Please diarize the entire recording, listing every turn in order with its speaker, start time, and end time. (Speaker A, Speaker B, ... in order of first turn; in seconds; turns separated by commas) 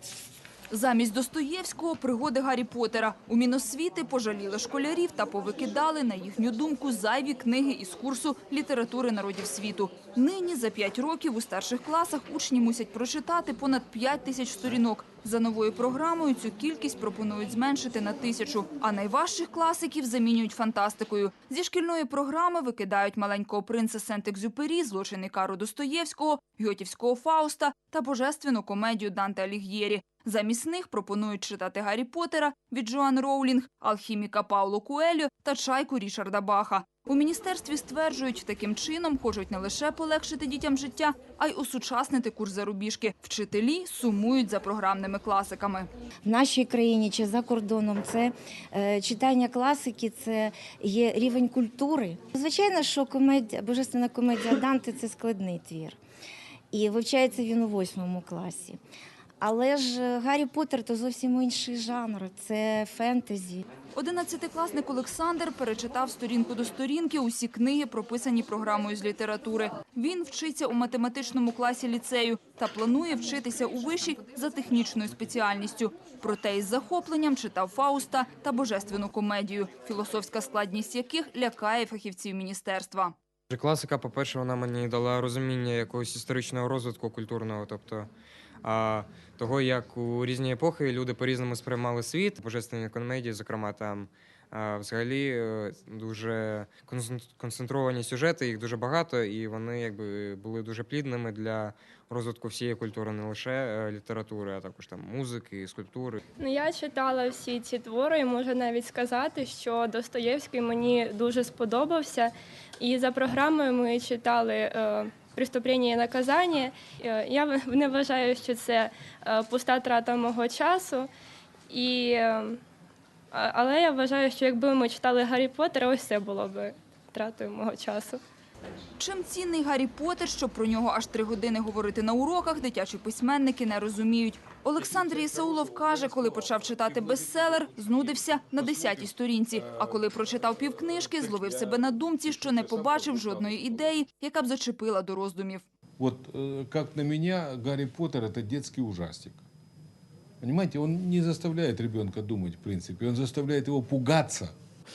Speaker A: 0.7-45.9, Speaker B: 46.2-56.0, Speaker B: 56.7-58.8, Speaker B: 59.4-63.6, Speaker A: 63.9-83.1, Speaker C: 83.5-88.1, Speaker C: 88.6-106.2, Speaker D: 106.4-121.1, Speaker D: 121.7-122.6, Speaker D: 123.3-128.2, Speaker A: 129.0-145.6, Speaker E: 134.9-139.9, Speaker E: 141.0-143.9, Speaker E: 146.0-149.4, Speaker E: 150.4-154.5